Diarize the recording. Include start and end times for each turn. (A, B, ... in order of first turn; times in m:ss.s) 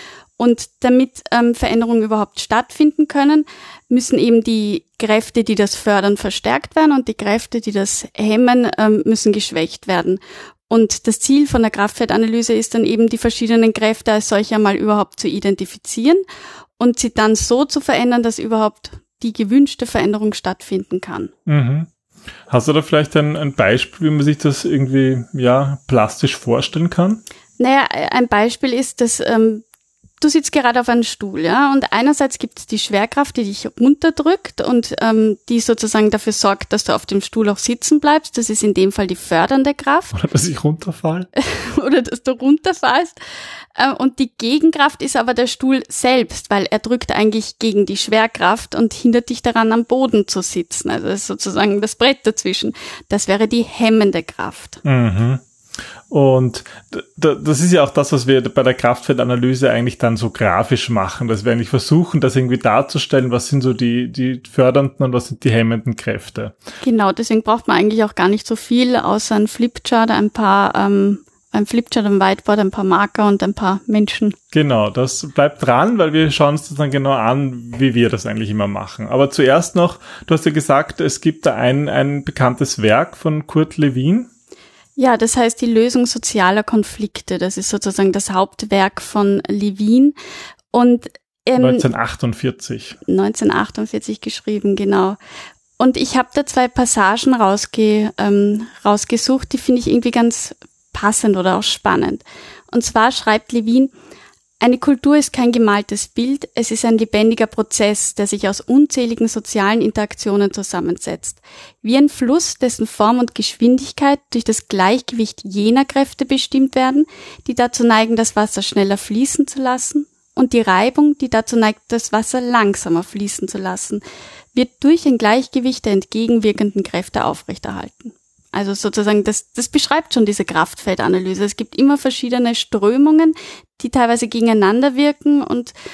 0:00.4-0:16.2 A
0:16.8-0:21.3 A
0:21.4-0:21.9 B
0:22.5-0:27.2 B
0:27.6-0:29.6 A
0:30.2-0:40.1 A
0:40.1-0:41.3 B
0:41.4-0:43.2 A
0:43.8-0:54.8 A
0:54.8-0:55.4 B
0:56.1-1:06.6 B
1:06.8-1:14.3 A
1:14.5-1:24.3 B
1:25.0-1:30.1 A
1:30.7-1:31.9 A
1:31.6-1:33.0 B
1:33.1-1:35.2 A
1:35.8-1:43.9 A
1:44.6-2:04.0 A
2:04.5-2:15.7 A